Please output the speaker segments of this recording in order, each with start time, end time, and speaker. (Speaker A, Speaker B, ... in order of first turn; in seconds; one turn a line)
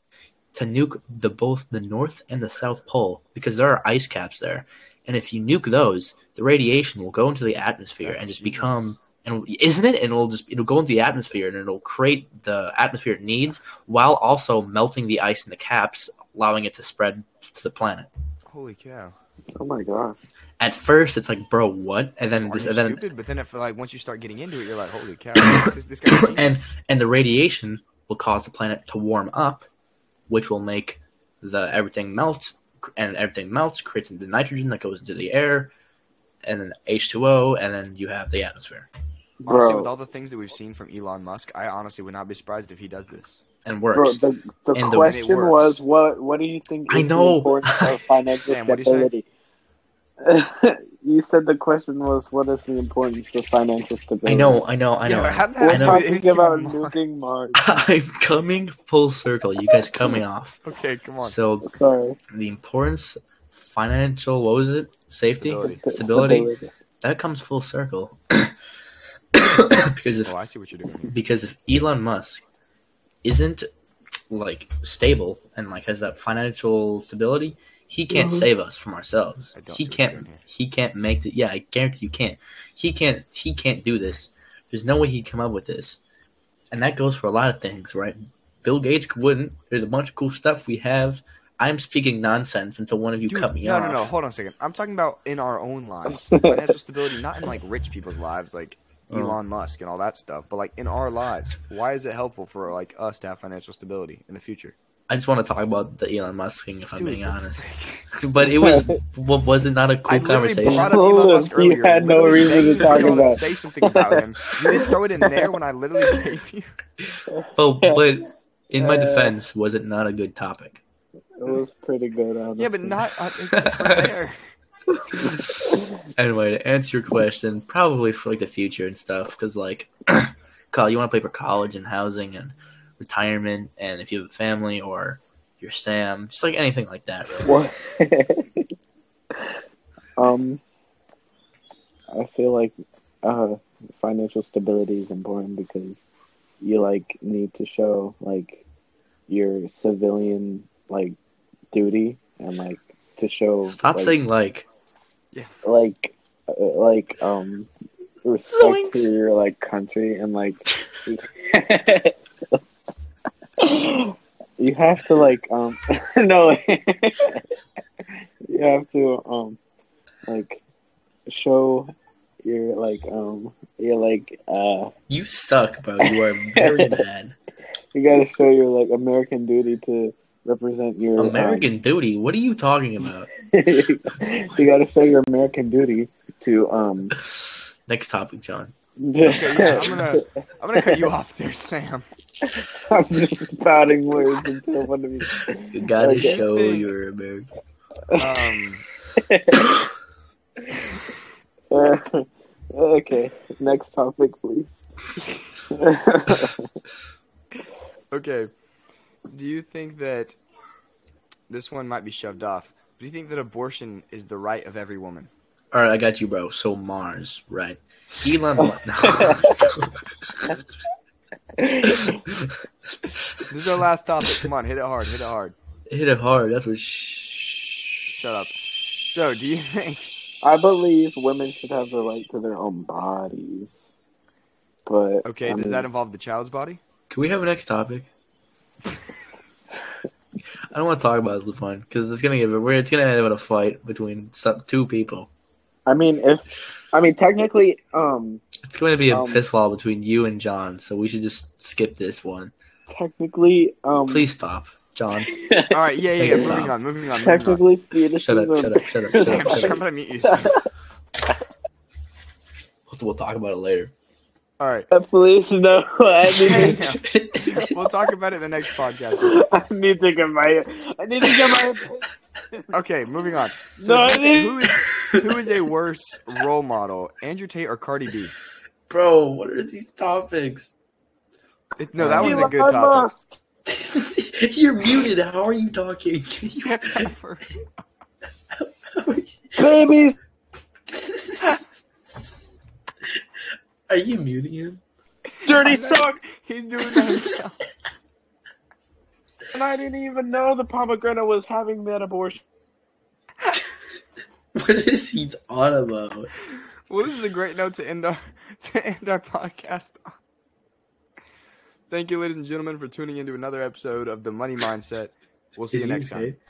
Speaker A: 0.5-18.1
Speaker B: 8.0-8.8
Speaker B: 18.5-19.1
Speaker C: 19.6-20.2
Speaker A: 20.6-23.0
Speaker B: 22.4-26.6
Speaker A: 25.4-29.7
Speaker A: 30.3-35.7
Speaker A: 36.4-38.9
Speaker C: 39.4-39.9
Speaker B: 39.5-43.4
Speaker A: 43.6-44.2
Speaker C: 43.9-49.3
Speaker A: 44.7-45.2
Speaker B: 45.0-45.8
Speaker A: 46.9-48.0
Speaker B: 48.5-49.1
Speaker C: 50.2-54.6
Speaker A: 54.2-56.0
Speaker B: 55.0-57.0
Speaker C: 55.6-57.8
Speaker A: 57.6-60.6
Speaker B: 60.6-61.4
Speaker A: 61.2-61.7
Speaker C: 61.6-62.2
Speaker A: 62.3-66.5
Speaker B: 65.3-65.8
Speaker C: 65.6-66.7
Speaker A: 67.0-68.5
Speaker A: 69.3-70.3
Speaker B: 70.2-71.1
Speaker A: 71.1-72.4
Speaker A: 73.2-73.7
Speaker A: 74.3-86.0
Speaker C: 78.1-78.5
Speaker B: 79.5-80.4
Speaker A: 86.7-94.1
Speaker B: 93.2-104.7
Speaker C: 96.2-96.6
Speaker A: 99.1-99.4
Speaker A: 105.1-110.9
Speaker B: 107.0-108.1
Speaker C: 108.4-109.0
Speaker B: 110.0-116.7
Speaker C: 110.7-115.3
Speaker C: 117.3-118.0
Speaker A: 117.5-120.8
Speaker C: 118.8-119.3
Speaker C: 121.4-123.0
Speaker B: 122.6-124.4
Speaker A: 123.5-124.1
Speaker C: 124.9-125.8
Speaker A: 125.2-137.6
Speaker C: 137.4-138.7
Speaker C: 140.2-140.6
Speaker C: 142.1-146.0
Speaker C: 146.6-148.6
Speaker C: 149.3-151.2
Speaker C: 151.7-154.1
Speaker A: 153.7-154.6
Speaker B: 155.3-155.6
Speaker C: 155.6-157.7
Speaker C: 158.2-162.6
Speaker A: 158.5-159.1
Speaker C: 163.6-167.4
Speaker C: 168.4-169.6
Speaker C: 170.3-170.6
Speaker C: 171.3-174.9
Speaker A: 175.1-177.3
Speaker C: 176.0-177.0
Speaker C: 177.9-181.7
Speaker A: 181.2-183.3
Speaker C: 183.4-187.2
Speaker A: 187.3-188.7
Speaker C: 189.0-191.1
Speaker A: 189.2-190.1
Speaker B: 189.2-192.0
Speaker C: 192.4-196.4
Speaker A: 195.7-197.5
Speaker B: 196.1-196.9
Speaker C: 198.1-198.6
Speaker B: 198.1-198.8
Speaker C: 199.2-199.7
Speaker C: 201.7-204.8
Speaker C: 205.7-206.7
Speaker B: 208.1-208.5
Speaker B: 209.3-210.4
Speaker B: 211.5-215.3
Speaker A: 215.7-219.9
Speaker B: 218.1-218.4
Speaker C: 218.6-219.7
Speaker C: 221.5-222.2
Speaker A: 221.9-223.4
Speaker B: 223.5-225.6
Speaker A: 225.9-227.9
Speaker B: 228.1-230.1
Speaker C: 230.4-233.8
Speaker C: 234.8-235.9
Speaker B: 235.2-236.8
Speaker A: 237.1-238.1
Speaker A: 240.7-245.3
Speaker C: 245.8-248.4
Speaker A: 248.6-252.5
Speaker C: 249.1-249.4
Speaker C: 252.9-254.3
Speaker A: 254.1-255.3
Speaker C: 255.2-260.6
Speaker B: 255.7-257.6
Speaker A: 256.2-256.7
Speaker A: 258.2-259.8
Speaker B: 259.1-260.6
Speaker A: 262.9-263.9
Speaker B: 264.6-264.9
Speaker C: 264.9-266.8
Speaker A: 266.4-267.7
Speaker B: 266.4-269.6
Speaker C: 269.2-272.7
Speaker B: 272.7-278.3
Speaker C: 273.8-274.6
Speaker A: 274.7-275.3
Speaker A: 278.9-280.7
Speaker B: 281.8-283.1
Speaker A: 282.0-282.5
Speaker C: 282.2-283.3
Speaker A: 283.7-287.1
Speaker B: 286.6-287.6
Speaker A: 288.6-289.8
Speaker C: 289.6-290.2
Speaker A: 290.9-291.6
Speaker A: 293.9-294.8
Speaker B: 295.4-297.6
Speaker C: 295.4-296.2
Speaker C: 299.5-302.4
Speaker A: 304.5-306.3
Speaker B: 306.9-310.1
Speaker B: 311.9-316.3
Speaker A: 315.7-316.4